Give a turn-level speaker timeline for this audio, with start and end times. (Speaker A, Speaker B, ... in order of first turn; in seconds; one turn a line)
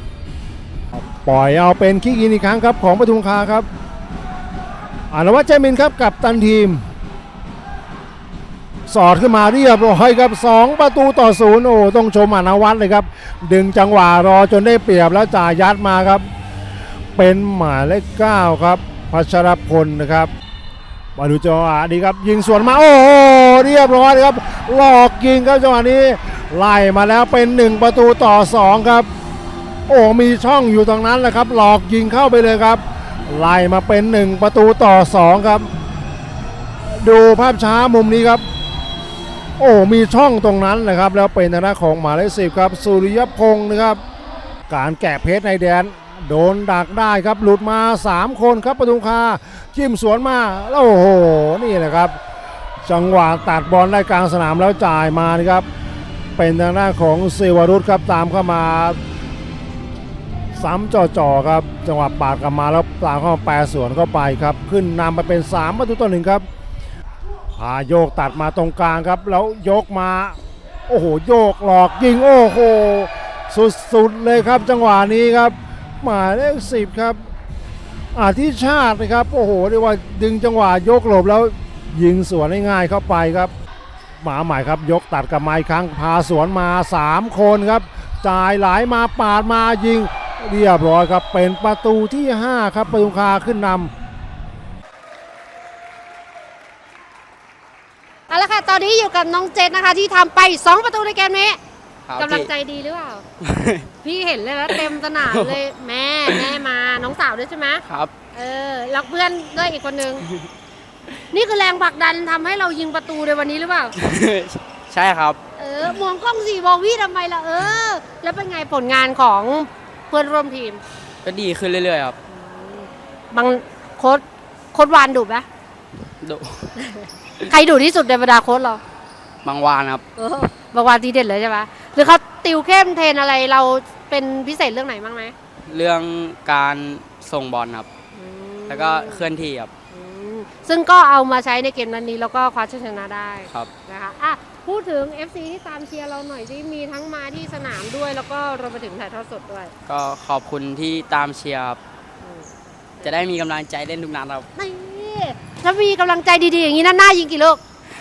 Speaker A: 1.0-3.7
Speaker A: 5.1-6.8
Speaker A: 8.9-16.2
Speaker A: 17.1-20.3
Speaker A: 21.1-29.1
Speaker A: 29.9-35.7
Speaker A: 36.9-38.4
Speaker A: 39.6-44.0
Speaker A: 44.7-52.2
Speaker A: 52.8-55.6
Speaker A: 56.4-59.0
Speaker A: 60.5-66.4
Speaker A: 67.6-77.2
Speaker A: 78.1-83.5
Speaker A: 84.2-93.9
Speaker B: 98.3-101.6
Speaker C: 102.1-102.5
Speaker B: 102.2-103.2
Speaker C: 103.4-103.8
Speaker B: 104.0-110.2
Speaker C: 104.7-105.6
Speaker C: 106.3-106.5
Speaker C: 107.8-108.1
Speaker B: 111.3-113.9
Speaker C: 114.0-115.4
Speaker B: 115.6-120.8
Speaker C: 121.2-122.2
Speaker B: 122.3-125.5
Speaker C: 126.2-126.7
Speaker B: 126.8-128.8
Speaker C: 129.4-130.0
Speaker B: 130.2-135.3
Speaker C: 135.7-137.9
Speaker B: 138.1-139.3
Speaker C: 138.7-139.7
Speaker B: 139.9-149.7
Speaker C: 149.9-151.8
Speaker B: 152.2-152.5
Speaker C: 153.0-154.5
Speaker B: 154.5-157.6